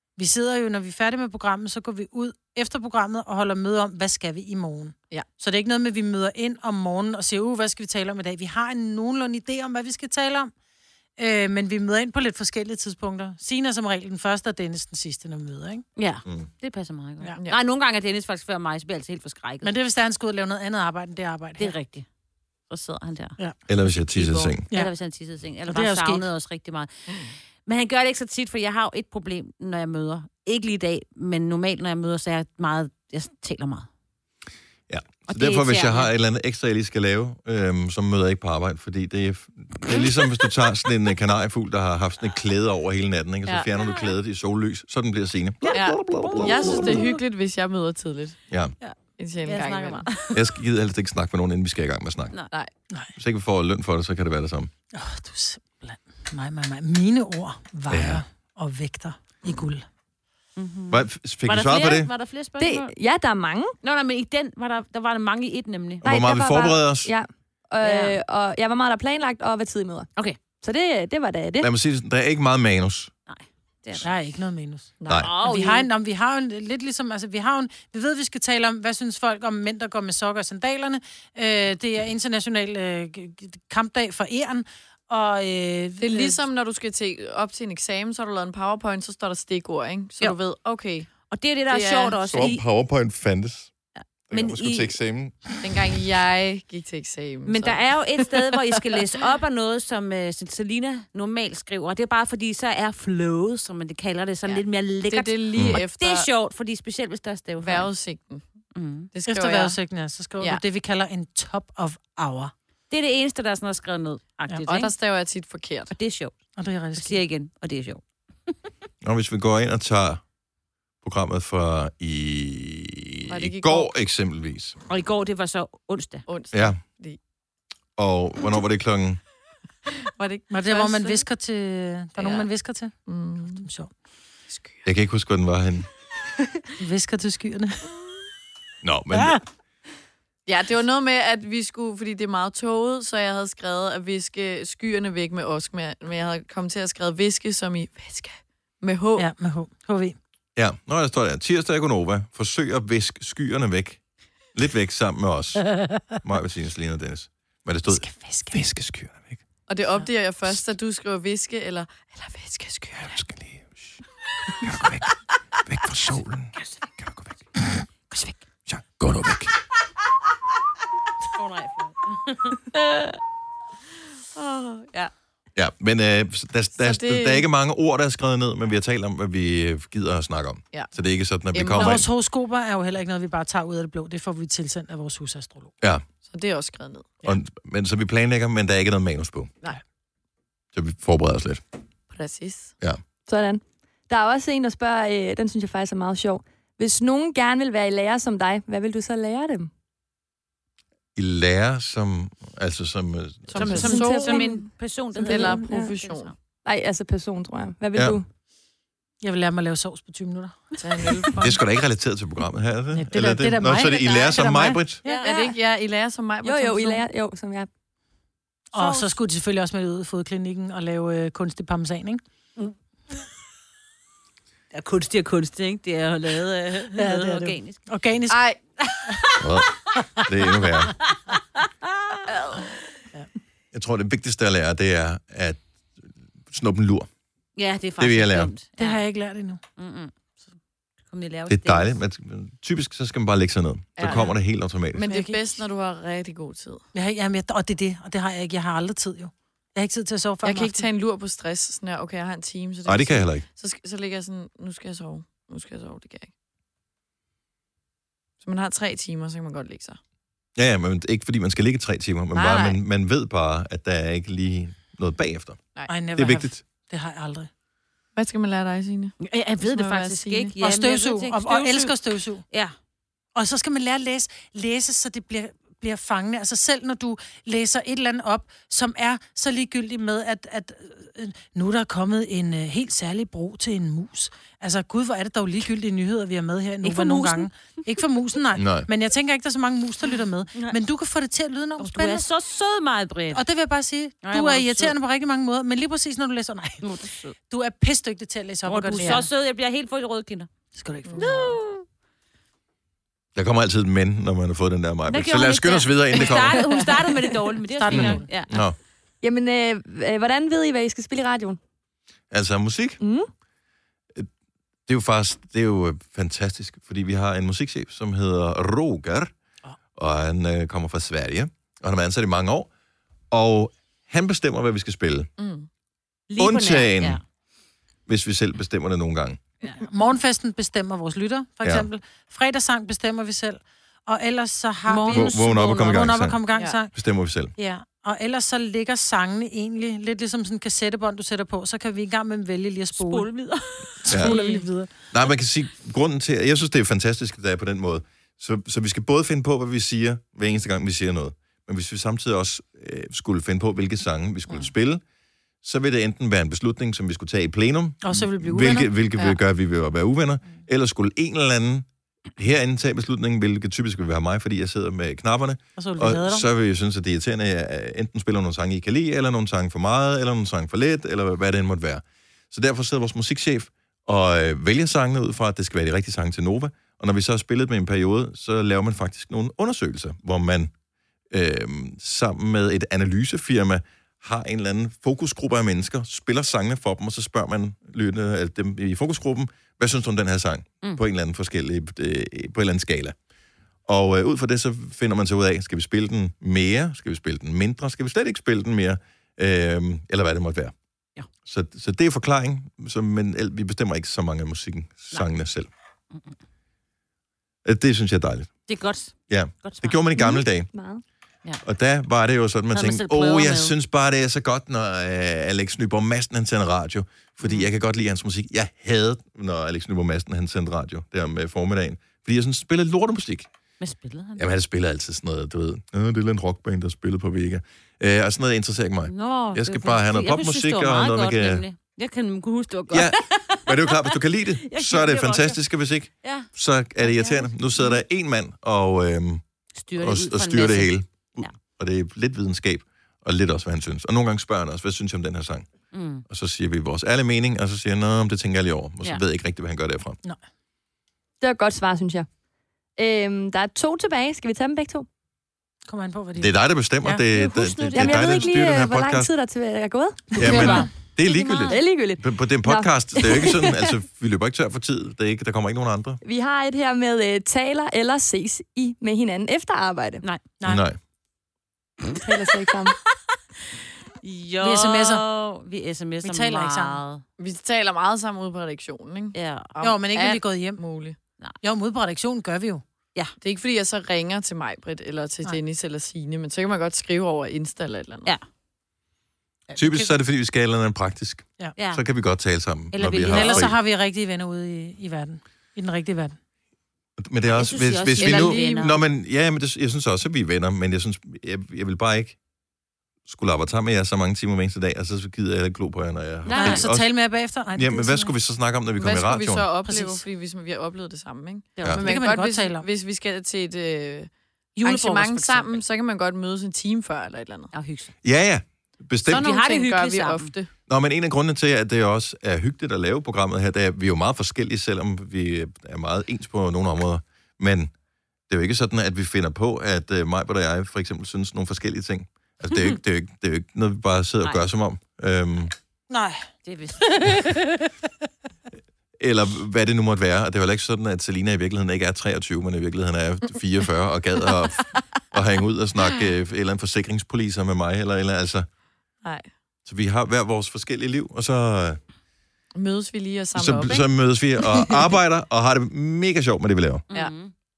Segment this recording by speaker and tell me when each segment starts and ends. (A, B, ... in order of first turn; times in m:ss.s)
0:00.2-0:10.5 A
0:11.2-0:15.8 A
0:16.0-0:19.7 B
0:19.6-0:21.8 A
0:21.6-0:22.0 B
0:22.7-0:23.4 B
0:23.7-0:24.7 C
0:24.2-0:24.6 D
0:24.7-0:33.9 B
0:25.6-0:26.3 A
0:34.9-0:47.0 C
0:35.3-0:36.1 B
0:39.9-0:40.4 B
0:43.8-0:44.1 B
0:45.6-0:47.2 B
0:45.7-0:48.4 D
0:48.8-0:50.4 B
0:49.2-0:50.1 D
0:50.3-0:52.3 C
0:53.2-0:54.7 C
0:54.9-0:59.9 A
0:57.9-0:58.2 C
1:00.6-1:02.9 B
1:00.9-1:02.1 C
1:02.6-1:03.8 E
1:03.8-1:06.0 B
1:06.0-1:07.1 C
1:06.0-1:10.1 E
1:07.8-1:08.2 B
1:10.6-1:11.7 E
1:11.6-1:13.1 C
1:13.3-1:14.1 B
1:14.0-1:26.4 A
1:15.0-1:15.3 D
1:15.1-1:15.3 C
1:15.1-1:15.9 B
1:26.0-1:31.1 D
1:31.3-1:32.6 B
1:31.7-1:32.2 D
1:32.2-1:33.7 C
1:34.3-1:34.9 B
1:34.3-1:35.3 C
1:35.6-1:39.0 D
1:37.4-1:47.9 B
1:44.4-1:46.3 D
1:47.6-1:48.4 D
1:48.7-1:49.1 B
1:49.1-1:49.8 D
1:49.2-1:52.5 A
1:52.9-1:54.9 B
1:54.7-1:56.0 D
1:55.9-1:56.3 B
1:56.6-1:57.2 A
1:56.9-1:58.0 B
1:59.0-2:00.2 C
2:01.0-2:04.8 C
2:03.3-2:03.9 D
2:04.9-2:06.2 B
2:06.3-2:07.2 D
2:06.5-2:06.8 C
2:08.0-2:09.2 C
2:10.2-2:11.3 D
2:10.5-2:12.9 A
2:12.2-2:12.5 D
2:13.1-2:13.7 D
2:13.5-2:13.9 A
2:14.5-2:14.8 D
2:14.8-2:15.9 C
2:16.8-2:17.8 A
2:18.8-2:19.4 C
2:19.1-2:19.4 A
2:20.4-2:29.3 D
2:29.2-2:30.2 A
2:30.6-2:34.0 C
2:34.5-2:39.4 C
2:35.7-2:36.2 A
2:37.9-2:38.6 A
2:39.7-2:43.2 D
2:43.0-2:44.0 C
2:44.6-2:45.1 C
2:45.6-2:47.3 C
2:46.6-2:46.9 B
2:48.1-2:48.4 B
2:48.7-2:49.5 C
2:51.4-2:52.6 B
2:54.3-2:55.1 D
2:55.6-3:02.0 C
2:56.8-2:57.4 D
3:01.5-3:02.1 D
3:01.7-3:05.7 A
3:06.3-3:07.2 D
3:07.2-3:09.5 C
3:10.7-3:11.6 C
3:12.1-3:12.7 D
3:13.3-3:19.7 E
3:21.2-3:23.8 C
3:23.5-3:26.3 D
3:23.6-3:26.3 B
3:23.6-3:24.6 E
3:25.2-3:25.9 E
3:26.6-3:28.2 E
3:29.2-3:31.2 A
3:30.8-3:31.6 D
3:31.4-3:35.0 C
3:32.9-3:35.2 A
3:33.8-3:34.4 B
3:35.0-3:35.5 B
3:35.2-3:37.0 D
3:36.4-3:37.7 E
3:38.7-3:42.2 A
3:38.8-3:39.1 B
3:44.7-3:47.8 B
3:46.9-3:48.4 A
3:48.3-3:48.6 D
3:48.8-3:49.4 B
3:49.4-3:50.9 C
3:51.1-3:52.6 B
3:52.3-3:52.7 D
3:53.7-3:57.1 C
3:57.6-3:59.0 B
3:58.0-3:58.5 C
3:58.8-3:59.6 A
3:59.8-4:00.4 B
4:01.1-4:01.9 B
4:01.5-4:05.1 C
4:04.0-4:04.4 D
4:04.9-4:06.8 D
4:05.0-4:05.5 A
4:06.9-4:10.9 A
4:10.4-4:16.3 D
4:12.8-4:13.4 C
4:18.4-4:20.0 D
4:20.6-4:26.6 C
4:22.3-4:22.8 D
4:25.9-4:27.5 A
4:28.2-4:30.6 D
4:29.2-4:32.7 B
4:30.6-4:32.4 A
4:33.3-4:52.3 A
4:46.8-4:47.5 B
4:48.6-4:48.9 C
4:50.0-4:50.8 B
4:51.8-4:53.4 B
4:53.3-4:56.9 A
4:54.2-4:54.9 B
4:56.8-4:57.3 B
4:57.5-4:59.3 A
4:58.7-5:00.5 B
5:00.7-5:01.4 A
5:01.1-5:01.5 D
5:01.2-5:01.8 B
5:03.3-5:06.7 C
5:05.1-5:08.6 B
5:06.3-5:07.1 D
5:07.8-5:08.3 A
5:07.9-5:08.8 C
5:09.2-5:11.6 E
5:12.3-5:13.0 C
5:13.0-5:13.3 E
5:14.9-5:19.3 C
5:20.0-5:22.7 C
5:23.3-5:25.3 C
5:25.4-5:25.7 D
5:26.3-5:27.2 B
5:26.4-5:27.2 C
5:28.1-5:29.4 C
5:29.7-5:36.9 A
5:31.6-5:31.9 C
5:34.9-5:36.3 B
5:35.1-5:36.4 C
5:36.9-5:37.5 C
5:37.6-5:43.3 A
5:42.9-5:44.2 B
5:44.0-5:44.9 A
5:44.1-5:44.4 C
5:44.2-5:44.7 D
5:45.1-5:55.0 C
5:55.6-6:01.8 C
5:58.0-5:58.9 A
6:02.4-6:20.7 C
6:05.8-6:06.4 A
6:21.3-6:33.2 C
6:33.9-6:40.7 C
6:41.4-6:45.7 C
6:47.6-6:48.5 C
6:48.7-6:50.0 B
6:49.3-6:50.7 C
6:50.2-6:51.0 E
6:51.6-7:03.5 C
6:52.7-6:53.7 B
6:57.4-6:57.7 B
7:03.8-7:04.5 B
7:04.4-7:11.6 C
7:09.1-7:15.6 B
7:12.9-7:19.4 C
7:16.2-7:16.5 B
7:17.0-7:18.0 B
7:19.8-7:21.6 B
7:20.0-7:25.7 C
7:25.9-7:26.2 B
7:26.3-7:30.2 C
7:31.4-7:32.3 E
7:33.0-7:35.1 E
7:35.9-7:36.5 A
7:36.4-7:39.3 C
7:37.1-7:38.5 B
7:37.9-7:40.8 E
7:40.3-7:46.2 C
7:40.4-7:40.9 A
7:40.5-7:41.8 B
7:41.7-7:43.9 E
7:46.2-7:50.2 E
7:50.6-7:50.8 A
7:50.6-7:51.0 C
7:52.2-7:53.0 E
7:54.2-7:57.2 B
7:54.6-7:55.2 A
7:56.2-7:57.0 A
7:57.4-8:01.2 D
7:59.3-7:59.7 B
7:59.8-8:00.8 A
8:01.6-8:02.8 A
8:03.4-8:08.3 D
8:09.7-8:10.2 A
8:09.8-8:13.8 C
8:11.8-8:12.0 B
8:12.9-8:13.7 B
8:13.2-8:16.4 A
8:17.2-8:22.4 C
8:17.6-8:19.0 B
8:18.2-8:18.9 D
8:23.3-8:29.7 C
8:26.4-8:26.9 B
8:26.5-8:28.3 A
8:29.0-8:34.3 D
8:29.8-8:30.2 A
8:31.8-8:32.0 B
8:32.0-8:32.8 A
8:34.8-8:35.7 A
8:34.8-8:37.7 D
8:37.7-8:38.1 B
8:38.2-8:39.5 C
8:39.3-8:40.7 D
8:39.3-8:40.5 B
8:40.9-8:47.9 C
8:48.5-8:55.7 C
8:52.7-8:53.0 B
8:56.1-8:56.5 A
8:56.6-8:57.4 B
8:57.0-8:57.9 A
8:59.2-9:08.7 C
9:09.2-9:09.5 D
9:09.8-9:12.0 C
9:12.7-9:14.9 D
9:13.6-9:17.0 C
9:17.1-9:17.5 B